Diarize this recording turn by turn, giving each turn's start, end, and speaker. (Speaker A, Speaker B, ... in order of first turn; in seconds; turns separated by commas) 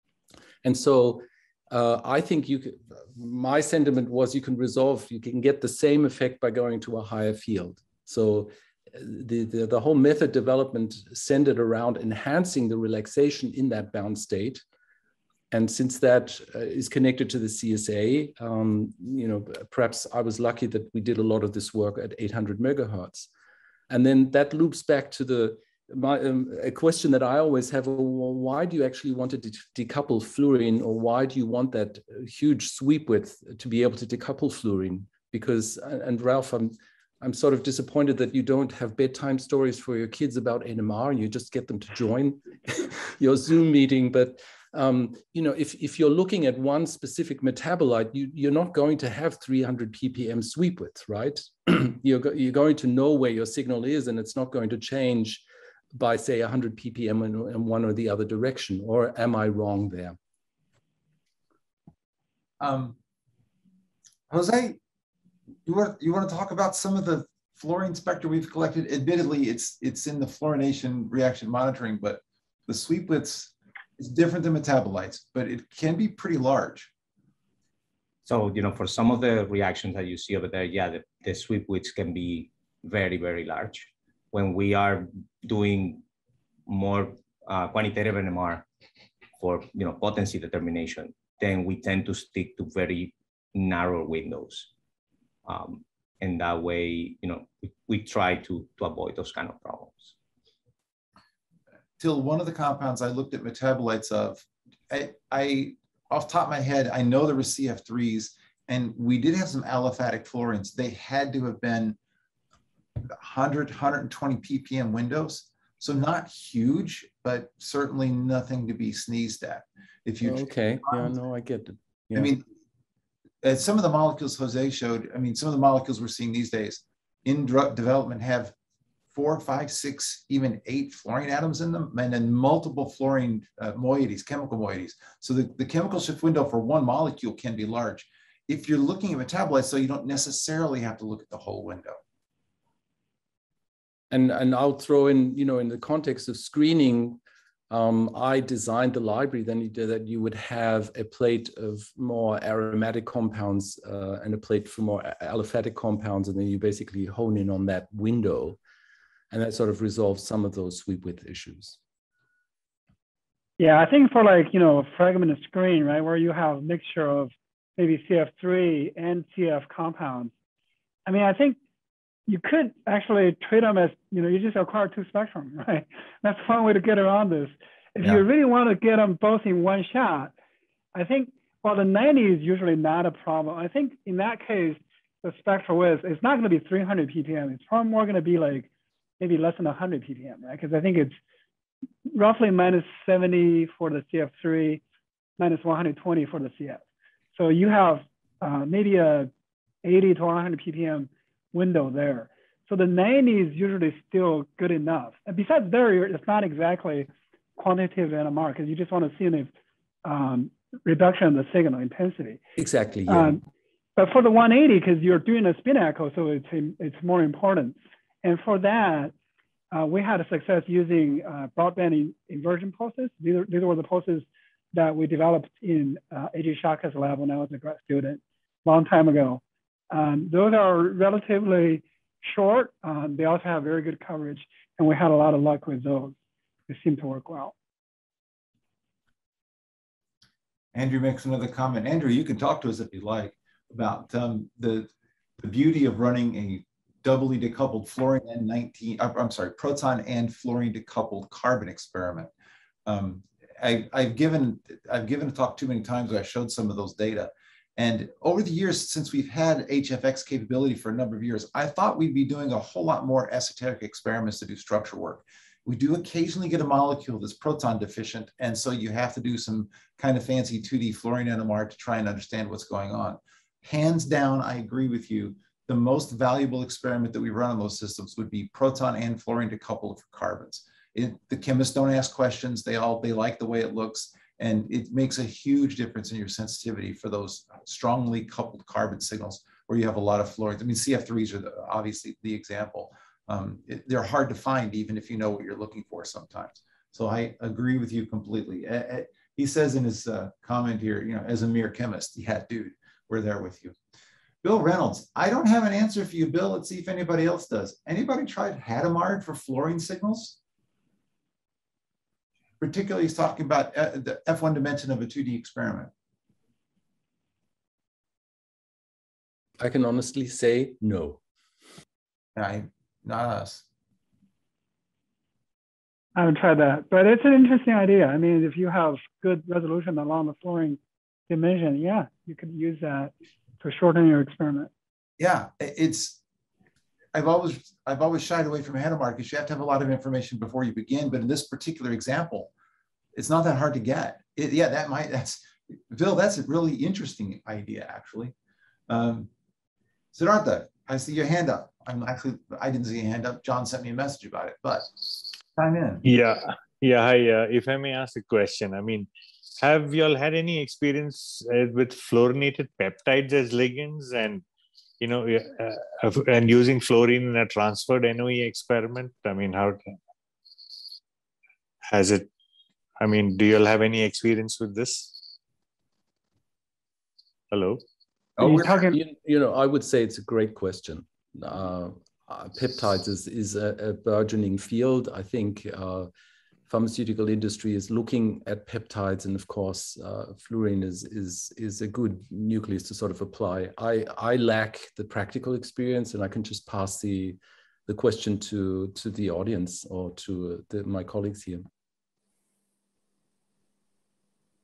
Speaker A: 0.6-14.6, Speaker A: 15.5-23.3, Speaker A: 23.9-60.2, Speaker B: 62.6-63.0, Speaker B: 64.3-64.8, Speaker B: 65.7-76.9, Speaker C: 78.2-86.0, Speaker C: 86.7-88.6, Speaker C: 89.4-94.7, Speaker C: 95.5-100.1, Speaker B: 102.0-112.0, Speaker B: 113.1-121.1, Speaker A: 120.2-122.3, Speaker B: 122.1-122.4, Speaker B: 123.4-128.5, Speaker B: 129.1-142.0, Speaker A: 144.1-147.2, Speaker A: 147.7-158.6, Speaker A: 159.3-161.8, Speaker D: 163.6-170.3, Speaker D: 171.1-171.6, Speaker D: 172.3-180.3, Speaker D: 180.9-188.7, Speaker D: 189.2-191.2, Speaker D: 192.1-194.8, Speaker D: 195.4-196.8, Speaker D: 197.3-199.3, Speaker D: 199.8-209.5, Speaker D: 210.0-212.4, Speaker A: 212.6-213.4, Speaker D: 213.1-213.4, Speaker D: 214.0-219.1, Speaker D: 219.7-236.2, Speaker D: 236.7-237.5, Speaker B: 240.7-252.3, Speaker B: 252.8-303.7, Speaker B: 304.4-310.4, Speaker B: 312.6-315.9, Speaker A: 319.6-321.2, Speaker B: 322.4-323.6, Speaker D: 326.1-334.7, Speaker B: 335.2-336.2, Speaker B: 337.1-342.5, Speaker B: 343.1-348.3, Speaker B: 348.9-349.3, Speaker B: 350.1-356.0, Speaker E: 356.0-364.4, Speaker E: 365.0-370.0, Speaker E: 371.9-372.3, Speaker E: 373.0-375.3, Speaker E: 377.5-377.8, Speaker B: 378.4-378.8, Speaker D: 378.4-379.0, Speaker A: 378.7-386.1, Speaker A: 386.7-401.7